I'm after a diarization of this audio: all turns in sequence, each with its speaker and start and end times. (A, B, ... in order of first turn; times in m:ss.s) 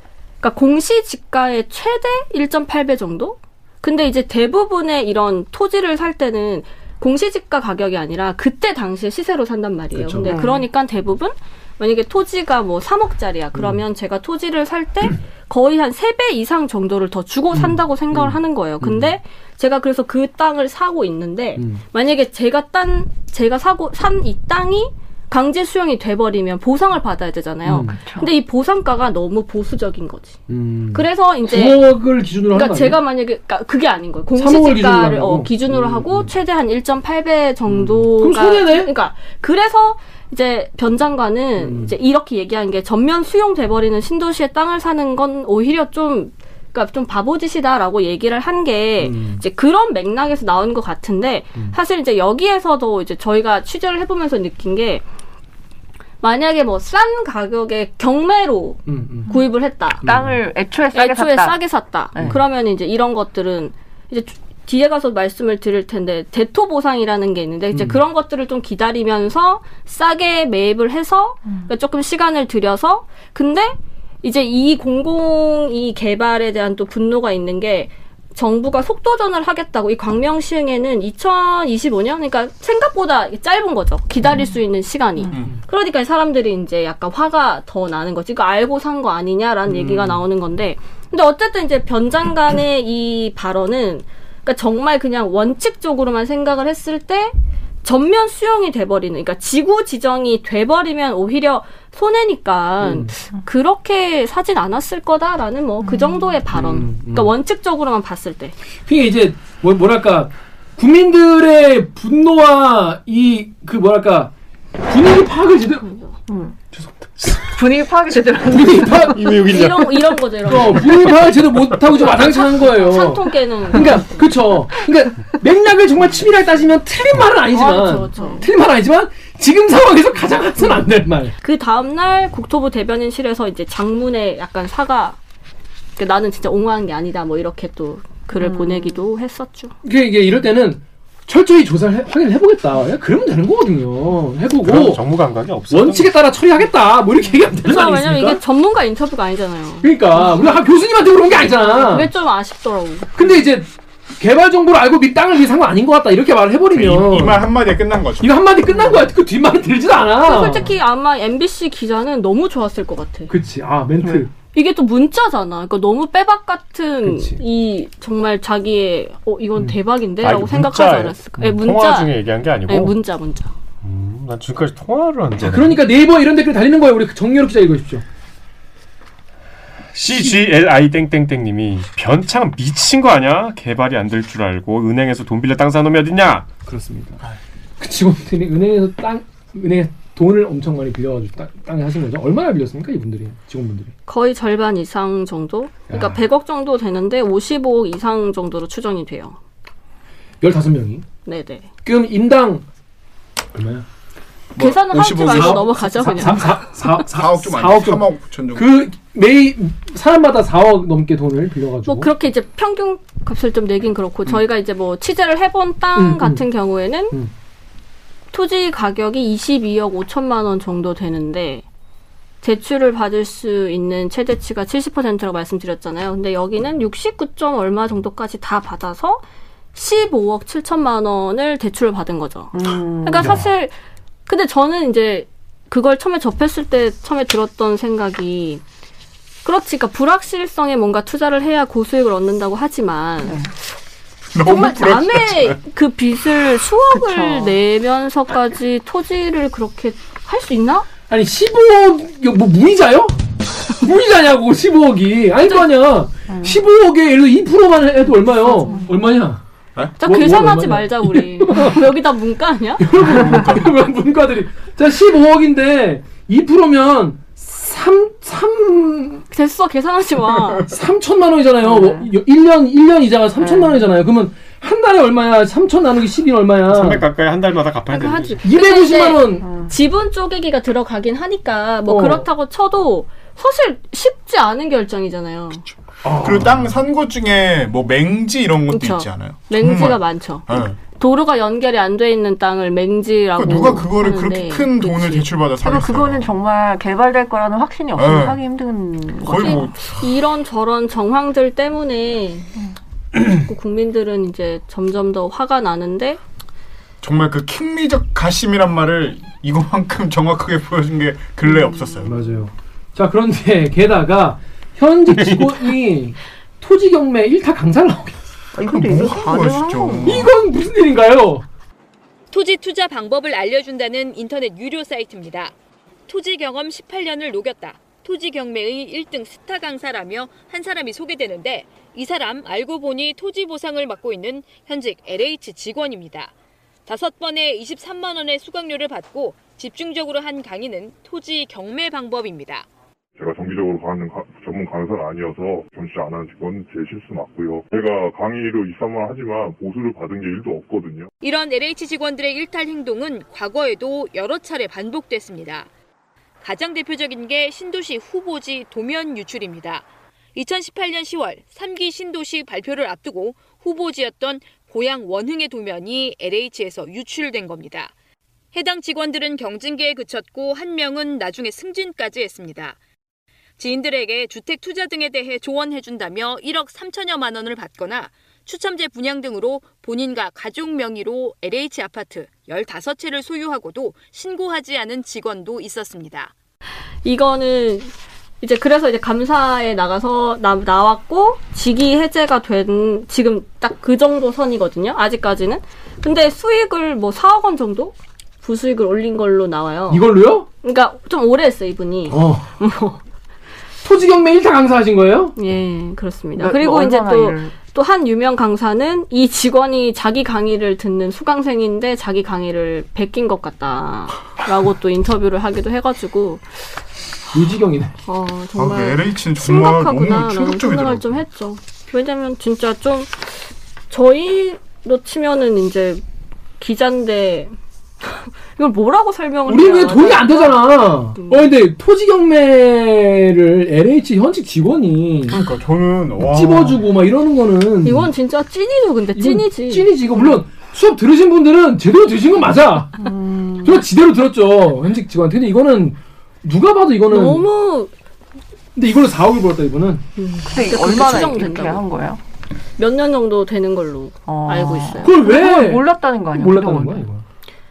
0:00.4-0:30.4 A
0:09.9-0:10.4 B
0:10.2-0:10.6 C
0:13.5-0:13.8 B
0:17.5-0:19.2 B
0:21.6-0:21.8 B
0:27.6-0:27.9 B
0:27.8-0:28.3 C
0:30.5-0:33.0 B
0:30.9-0:31.8 A
0:32.5-0:55.0 A
0:34.4-0:36.3 B
0:37.6-0:38.9 B
0:41.6-0:41.9 B
0:49.0-0:49.4 B
0:56.2-1:00.0 A
0:58.9-0:59.3 B
1:00.0-1:00.4 B
1:00.0-1:01.6 C
1:00.9-1:48.5 A
1:07.7-1:08.0 B
1:29.6-1:30.2 B
1:42.8-1:43.1 B
1:45.8-1:46.2 C
1:46.5-1:47.3 B
1:48.8-1:54.3 B
1:54.9-1:55.9 B
1:55.8-1:56.1 A
1:56.3-1:56.5 C
1:56.7-1:57.4 D
1:57.5-1:59.7 C
1:58.5-1:59.2 B
1:59.1-1:59.9 D
1:59.4-2:01.2 A
2:00.4-2:11.3 B
2:02.0-2:04.2 A
2:07.5-2:08.4 A
2:07.7-2:08.4 C
2:11.4-2:15.2 A
2:16.0-2:19.7 A
2:18.3-2:19.0 C
2:19.8-2:25.0 B
2:24.6-2:26.1 D
2:25.7-2:28.4 B
2:27.6-2:30.6 A
2:29.8-2:32.1 B
2:31.4-2:33.3 A
2:33.2-2:37.4 B
2:36.7-2:38.4 E
2:38.2-2:40.7 B
2:40.2-2:43.3 A
2:43.3-2:44.3 B
2:44.5-2:53.5 A
2:47.0-2:47.4 B
2:50.2-2:53.0 D
2:53.8-2:55.8 D
2:55.4-2:58.0 B
2:59.9-3:06.5 D
3:00.1-3:00.4 B
3:06.6-3:07.2 B
3:07.8-3:13.9 B
3:14.1-3:19.4 A
3:15.9-3:16.2 B
3:20.4-3:21.0 B
3:21.2-3:21.6 A
3:21.8-3:22.6 B
3:23.5-3:23.8 B
3:24.6-3:26.2 E
3:24.6-3:26.8 A
3:25.2-3:32.1 B
3:27.1-3:28.7 E
3:31.8-3:37.2 A
3:35.9-3:36.4 B
3:38.3-3:41.6 A
3:42.4-3:49.2 A
3:49.7-3:53.7 A
3:52.5-3:53.4 C
3:54.3-3:58.6 A
3:59.4-4:03.4 A
4:03.2-4:03.5 C
4:04.3-4:05.6 E
4:04.4-4:10.9 A
4:06.9-4:07.5 C
4:11.1-4:19.4 B
4:16.3-4:16.6 C
4:20.0-4:22.9 A
4:20.0-4:21.8 B
4:22.8-4:29.2 B
4:23.0-4:23.7 E
4:29.3-4:30.7 A
4:30.7-4:37.0 B
4:31.6-4:32.1 C
4:33.4-4:33.8 C
4:36.7-4:38.4 D
4:37.9-4:45.6 A
4:38.4-4:39.4 B
4:39.4-4:39.7 C
4:41.8-4:42.3 B
4:46.0-4:46.8 B
4:46.2-4:50.8 E
4:48.7-4:55.2 A
4:53.4-4:56.3 E
4:55.6-4:59.7 C
4:58.0-4:58.4 E
4:59.2-5:00.0 E
4:59.4-5:02.5 A
5:03.3-5:06.2 A
5:07.0-5:12.1 E
5:11.4-5:12.1 C
5:12.0-5:18.2 B
5:18.5-5:20.2 C
5:18.6-5:20.3 E
5:20.0-5:21.4 B
5:22.3-5:25.5 F
5:26.1-5:36.3 F
5:36.8-5:42.7 F
5:43.2-5:51.1 G
5:51.2-5:55.7 F
5:56.4-6:07.9 F
6:08.5-6:12.8 F
6:13.6-6:26.3 F
6:27.0-6:40.0 A
6:39.9-6:40.5 B
6:40.6-6:43.0 A
6:42.1-6:42.4 B
6:43.8-6:45.3 B
6:45.4-6:56.7 A
6:46.4-6:47.6 C
6:57.3-6:57.9 B
6:58.1-7:06.0 A
6:58.6-7:01.2 E
7:06.6-7:11.4 A
7:09.4-7:15.4 B
7:15.3-7:16.8 E
7:16.3-7:18.1 B
7:17.8-7:20.3 A
7:19.1-7:23.0 B
7:23.0-7:23.8 C
7:23.6-7:27.4 B
7:27.1-7:27.9 A
7:28.7-7:30.0 B
7:30.2-7:31.8 A
7:30.5-7:32.2 C
7:32.8-7:35.2 A
7:34.2-7:37.0 C
7:35.0-7:37.2 B